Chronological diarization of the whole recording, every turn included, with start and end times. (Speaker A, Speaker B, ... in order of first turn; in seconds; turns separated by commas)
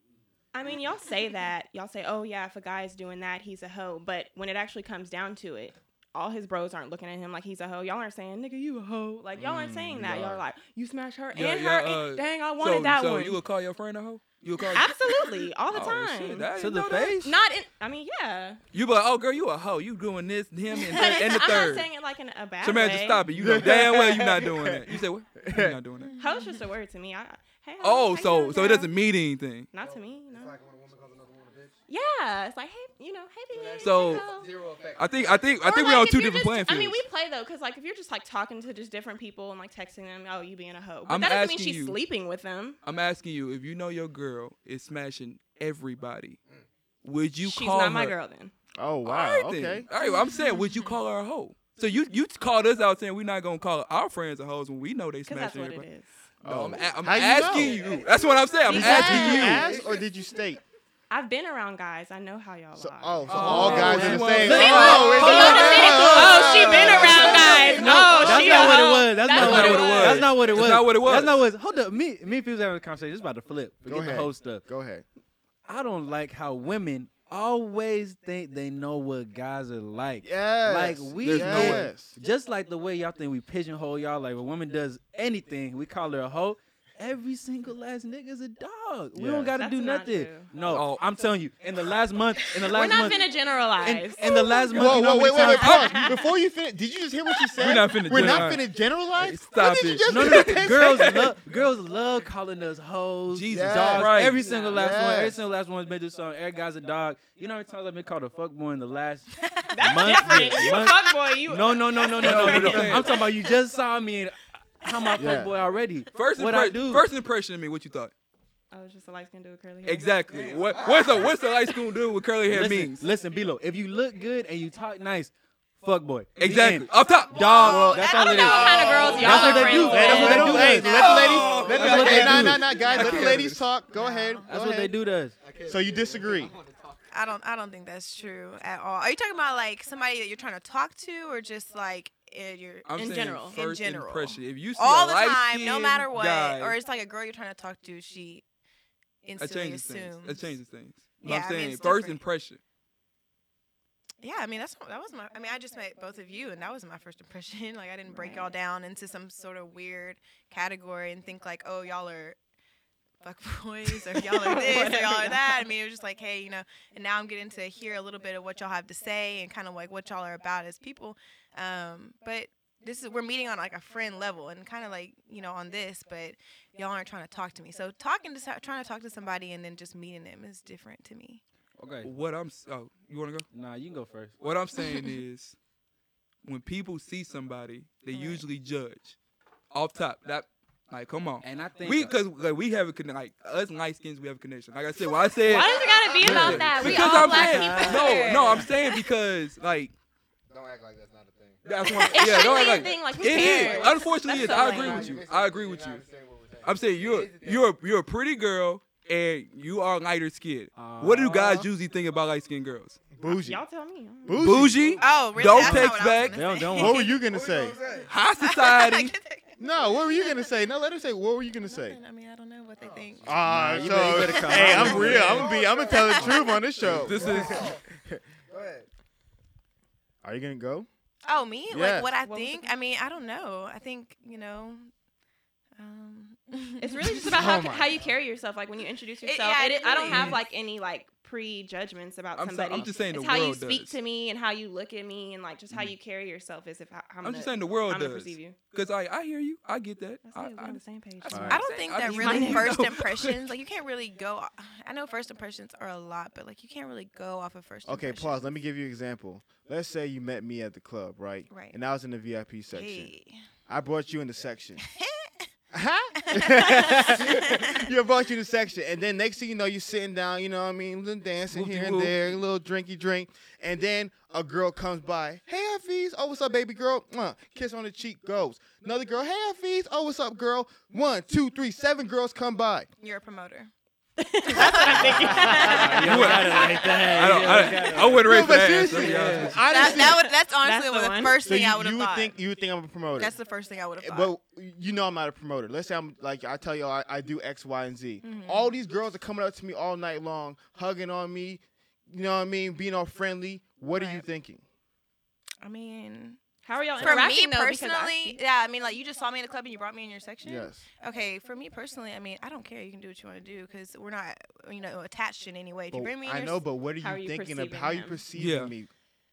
Speaker A: 0.5-13.4, Speaker B: 9.4-10.4, Speaker C: 11.3-17.2, Speaker A: 14.7-16.5, Speaker D: 16.6-17.4, Speaker A: 17.2-18.6, Speaker C: 18.7-21.9, Speaker A: 20.7-23.2, Speaker C: 22.6-26.1, Speaker B: 23.3-25.8, Speaker A: 26.2-28.9, Speaker C: 27.8-29.7, Speaker A: 29.7-30.6, Speaker E: 30.4-31.7, Speaker A: 31.9-34.5, Speaker C: 33.8-34.3, Speaker E: 34.4-35.1, Speaker C: 34.9-37.0, Speaker A: 35.6-42.8, Speaker C: 41.1-42.0, Speaker C: 42.8-46.4, Speaker C: 47.0-48.1, Speaker A: 47.4-48.5, Speaker B: 48.8-49.9, Speaker C: 49.0-55.9, Speaker F: 50.0-50.9, Speaker A: 55.3-56.1, Speaker B: 56.4-58.0, Speaker C: 56.4-59.7, Speaker A: 58.6-59.8, Speaker B: 58.7-60.6, Speaker A: 61.1-70.3, Speaker B: 62.8-68.7, Speaker C: 63.3-65.7, Speaker D: 63.3-74.6, Speaker C: 69.2-71.4, Speaker B: 73.9-75.0, Speaker D: 75.7-93.3, Speaker B: 80.2-82.2, Speaker C: 81.2-81.9, Speaker B: 89.2-89.5, Speaker A: 89.5-90.5, Speaker C: 90.6-91.0, Speaker A: 92.7-96.2, Speaker D: 93.8-95.9, Speaker B: 94.7-101.3, Speaker C: 95.5-95.9, Speaker C: 97.6-101.3, Speaker D: 98.1-98.5, Speaker D: 100.0-117.1, Speaker C: 103.3-104.6, Speaker B: 103.5-105.4, Speaker A: 104.4-104.8, Speaker F: 109.4-109.7, Speaker A: 109.7-113.2, Speaker C: 112.2-113.2, Speaker B: 115.2-115.5, Speaker C: 116.1-118.1, Speaker A: 118.7-120.8, Speaker C: 119.8-123.1, Speaker D: 122.5-126.9, Speaker C: 126.4-128.1, Speaker F: 127.3-133.4, Speaker B: 127.6-134.9, Speaker D: 127.7-131.2, Speaker A: 128.1-130.8, Speaker C: 130.3-133.6, Speaker D: 131.7-132.7, Speaker F: 133.9-134.5, Speaker D: 134.5-135.4, Speaker B: 135.6-136.6, Speaker F: 137.1-148.4, Speaker C: 142.9-146.8, Speaker A: 143.0-143.6, Speaker F: 149.2-150.6, Speaker C: 149.4-152.6, Speaker F: 151.2-152.2, Speaker F: 154.2-162.4, Speaker A: 158.1-158.5, Speaker F: 163.2-181.4, Speaker A: 164.1-165.6, Speaker D: 181.8-182.1, Speaker C: 182.0-183.5, Speaker D: 183.5-184.3, Speaker C: 184.4-185.6, Speaker F: 184.8-185.2, Speaker C: 186.4-189.2, Speaker F: 188.1-188.4, Speaker C: 189.7-199.9, Speaker D: 191.4-192.1, Speaker A: 195.4-198.9, Speaker D: 196.2-198.7, Speaker F: 196.9-198.4, Speaker E: 200.5-201.7, Speaker C: 201.7-206.0, Speaker A: 201.8-205.2, Speaker F: 202.1-203.9, Speaker E: 204.4-207.6, Speaker C: 206.6-213.0, Speaker D: 210.8-211.7, Speaker B: 213.2-213.6, Speaker A: 213.2-214.4, Speaker B: 214.2-215.0, Speaker C: 214.3-216.4, Speaker F: 215.0-217.2, Speaker D: 215.5-217.2, Speaker B: 216.8-217.8, Speaker E: 217.3-218.1, Speaker C: 218.1-219.1, Speaker F: 218.4-220.4, Speaker B: 219.6-222.0, Speaker F: 221.6-226.7, Speaker E: 222.8-223.1, Speaker B: 223.2-228.2, Speaker D: 223.4-225.4, Speaker E: 224.9-225.7, Speaker C: 226.8-227.8, Speaker E: 227.2-227.8, Speaker E: 228.5-228.8, Speaker B: 230.2-230.9, Speaker F: 231.2-234.9, Speaker B: 231.7-232.1, Speaker A: 232.2-232.7, Speaker F: 235.8-237.7, Speaker A: 236.8-248.6, Speaker B: 237.2-238.0, Speaker F: 239.2-240.4, Speaker C: 242.4-244.0, Speaker C: 247.2-253.5, Speaker A: 250.2-252.8, Speaker B: 251.3-251.6, Speaker F: 251.3-258.5, Speaker B: 257.9-263.1, Speaker F: 261.5-261.8, Speaker F: 262.7-263.4, Speaker B: 263.7-264.8, Speaker F: 264.9-265.5, Speaker B: 265.7-282.9, Speaker F: 266.2-267.9, Speaker C: 271.5-272.2, Speaker F: 283.0-283.7, Speaker A: 284.2-287.5, Speaker F: 284.5-286.5, Speaker B: 284.9-286.2, Speaker D: 285.5-289.6, Speaker C: 286.0-289.6, Speaker B: 288.2-290.3, Speaker F: 289.6-292.3, Speaker A: 289.7-291.4, Speaker B: 291.4-293.4, Speaker F: 293.2-294.3, Speaker B: 294.0-304.6, Speaker F: 298.2-298.7, Speaker F: 303.9-304.2, Speaker F: 305.6-306.4, Speaker A: 306.6-308.4, Speaker F: 307.0-316.6, Speaker B: 310.4-310.9, Speaker B: 315.9-318.9, Speaker A: 317.0-318.2, Speaker C: 318.4-318.7